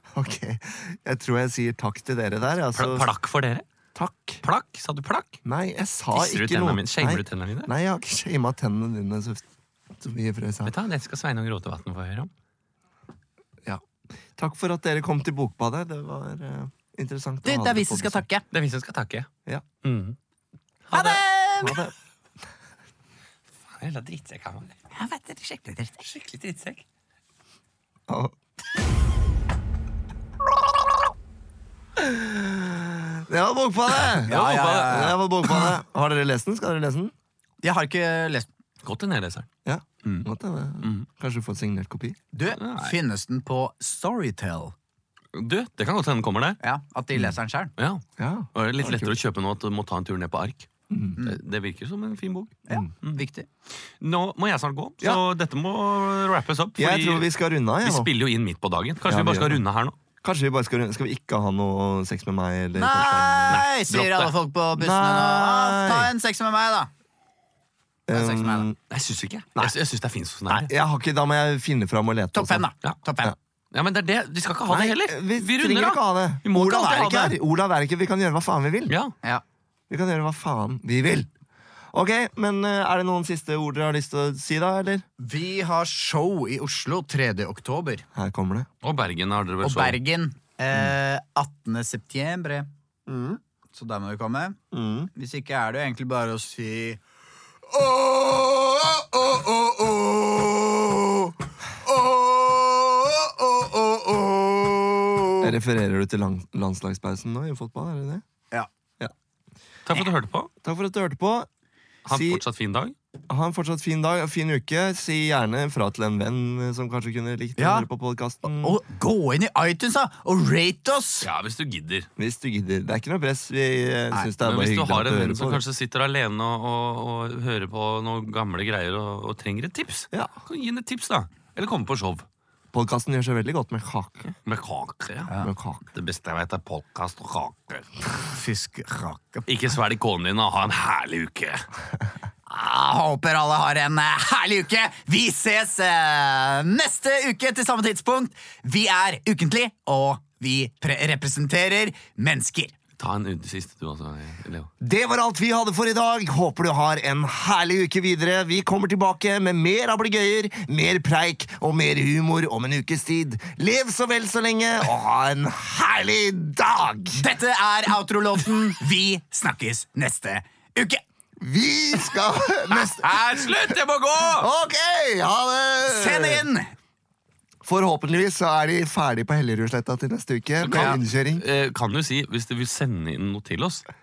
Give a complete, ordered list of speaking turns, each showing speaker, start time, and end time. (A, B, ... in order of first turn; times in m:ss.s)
0:00.1-0:03.1 A
0:02.8-0:03.6 B
0:04.0-0:04.4 A
0:04.4-0:05.4 B
0:05.4-0:09.4 A
0:06.1-0:07.7 B
0:10.0-0:10.8 A
0:10.7-0:12.3 B
0:14.4-0:18.3 A
0:17.4-0:18.4 C
0:18.5-0:19.3 B
0:19.8-0:20.2 B
0:20.9-0:21.2 B
0:20.9-0:21.8 C
0:21.6-0:21.9 A
0:23.7-0:24.8 B
0:25.0-0:26.0 C
0:26.0-0:26.8 B
0:28.1-0:28.3 A
0:32.0-0:37.1 A
0:34.2-0:35.0 B
0:34.3-0:35.7 C
0:37.6-0:38.5 C
0:38.8-0:39.5 B
0:39.6-0:42.2 A
0:40.8-0:41.1 B
0:42.3-0:44.7 C
0:42.5-0:43.0 B
0:45.3-0:46.6 B
0:46.6-0:47.7 C
0:47.8-0:48.0 B
0:48.2-0:49.2 A
0:48.6-0:50.7 B
0:50.9-0:51.2 A
0:51.2-0:53.2 B
0:52.7-0:53.5 C
0:54.0-0:57.3 B
0:56.8-0:58.1 A
0:57.8-1:00.0 B
0:59.0-0:59.6 A
1:00.2-1:03.6 A
1:02.8-1:06.9 C
1:03.5-1:04.3 B
1:04.8-1:06.1 A
1:08.1-1:08.8 A
1:08.1-1:08.7 C
1:08.9-1:10.7 B
1:10.5-1:12.7 A
1:12.3-1:13.3 C
1:13.7-1:17.4 B
1:14.7-1:18.9 A
1:18.9-1:19.1 B
1:19.9-1:21.3 A
1:21.9-1:25.0 A
1:25.2-1:28.0 C
1:28.2-1:28.7 A
1:28.8-1:30.0 B
1:29.6-1:32.7 C
1:33.1-1:33.4 A
1:33.7-1:34.6 C
1:34.7-1:35.1 A
1:35.2-1:37.0 C
1:37.8-1:39.0 C
1:43.4-1:45.4 C
1:45.4-1:48.2 A
1:49.9-1:50.5 B
1:50.6-1:51.5 A
1:52.1-1:53.0 B
1:52.1-1:52.4 A
1:53.3-1:58.8 A
1:57.6-1:57.9 C
1:58.5-2:01.3 C
2:01.2-2:02.1 B
2:02.2-2:05.6 A
2:04.4-2:12.2 B
2:12.7-2:14.3 A
2:14.4-2:15.3 B
2:15.4-2:15.8 A
2:15.9-2:17.9 B
2:18.3-2:19.5 C
2:19.5-2:21.7 B
2:22.5-2:32.7 C
2:33.0-2:34.7 B
2:34.8-2:47.2 A
2:47.2-2:51.0 C
2:51.4-2:53.6 A
2:52.7-2:54.5 B
2:54.3-2:56.4 A
2:55.9-2:56.7 C
2:57.6-3:01.4 A
3:00.6-3:03.9 B
3:00.7-3:01.0 C